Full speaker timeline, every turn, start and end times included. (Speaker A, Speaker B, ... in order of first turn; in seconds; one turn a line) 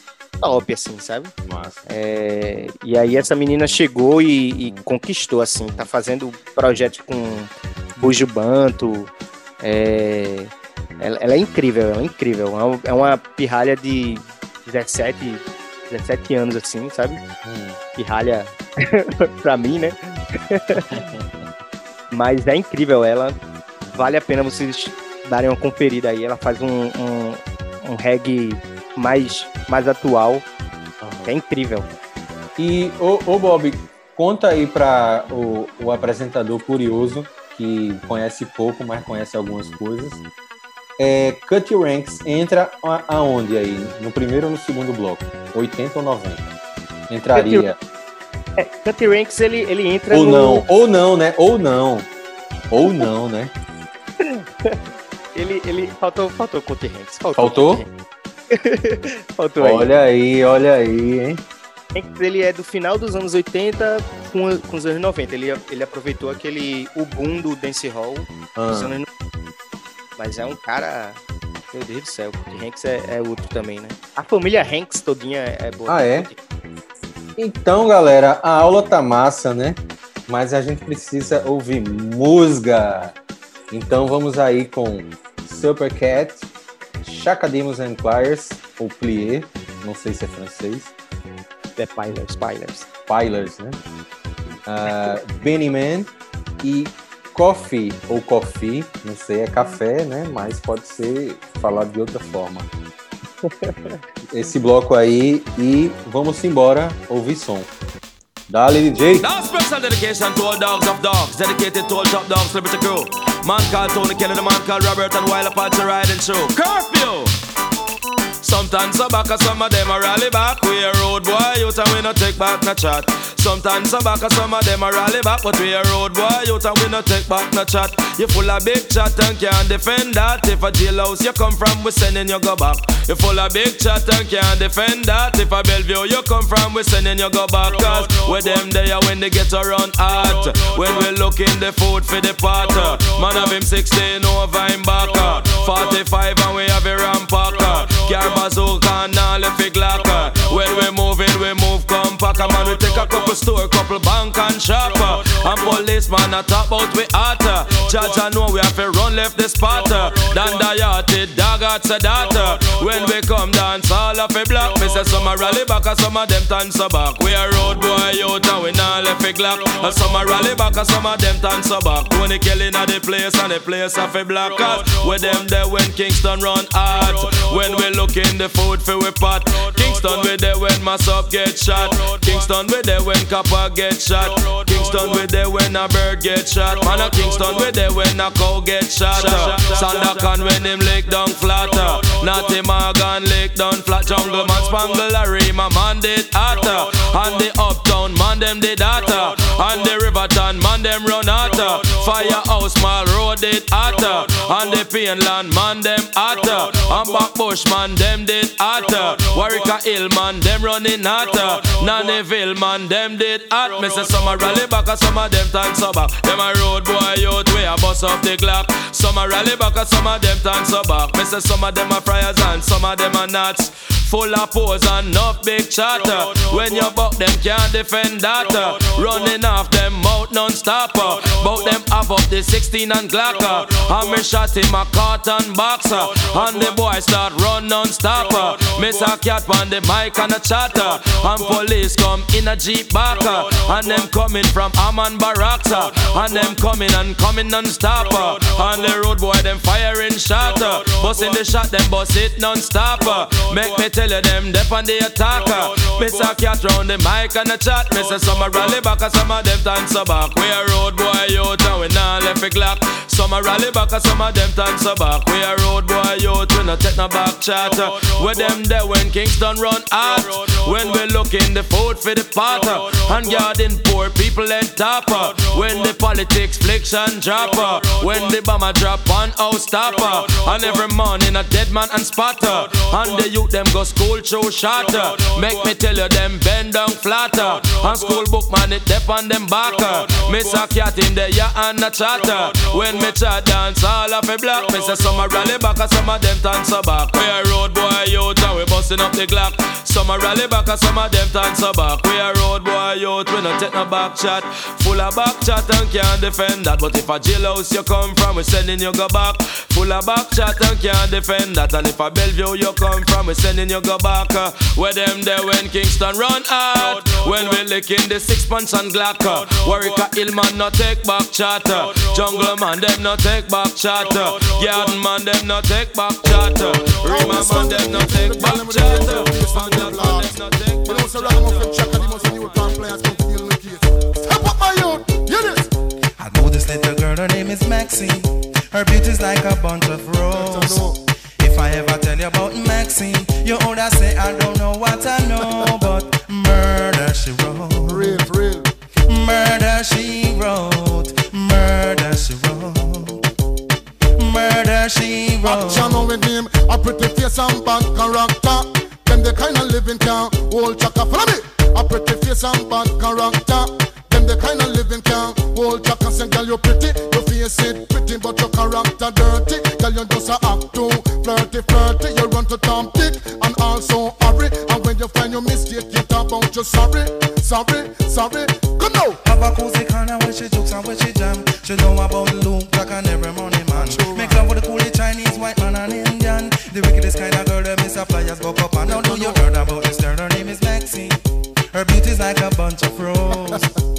Speaker A: 0.4-1.3
Speaker B: 1.4-1.8
Speaker A: 1.9-17.2
Speaker B: 17.4-17.8
Speaker A: 18.0-20.9
Speaker B: 20.8-21.5
Speaker A: 22.1-23.4
Speaker A: 23.9-30.4
Speaker B: 31.0-31.3
Speaker A: 31.3-31.9
Speaker B: 32.6-40.2
Speaker B: 41.0-46.5
Speaker B: 47.1-47.8
Speaker A: 47.3-47.7
Speaker A: 48.6-50.6
Speaker B: 50.1-52.1
Speaker B: 52.7-53.5
Speaker A: 54.2-54.8
Speaker A: 55.4-57.9
Speaker B: 57.4-57.8
Speaker A: 58.5-59.9
Speaker B: 59.6-61.4
Speaker A: 62.0-69.1
Speaker B: 68.6-69.0
Speaker A: 70.2-71.2
Speaker A: 71.7-76.4
Speaker B: 75.9-76.3
Speaker B: 77.4-83.2
Speaker B: 83.7-86.5
Speaker B: 87.0-90.9
Speaker A: 91.8-92.9
Speaker B: 93.1-93.8
Speaker B: 94.7-102.7
Speaker A: 94.8-95.2
Speaker A: 103.6-104.0
Speaker B: 104.3-107.7
Speaker B: 108.5-109.3
Speaker C: 109.2-117.3
Speaker C: 118.4-332.9
Speaker D: 327.0-335.7
Speaker E: 336.2-348.3
Speaker D: 340.3-341.0
Speaker D: 347.9-348.7
Speaker E: 349.1-353.2
Speaker E: 354.2-356.1
Speaker D: 355.4-379.2
Speaker E: 379.2-391.2
Speaker D: 383.7-384.4
Speaker D: 388.9-389.4
Speaker E: 391.7-393.7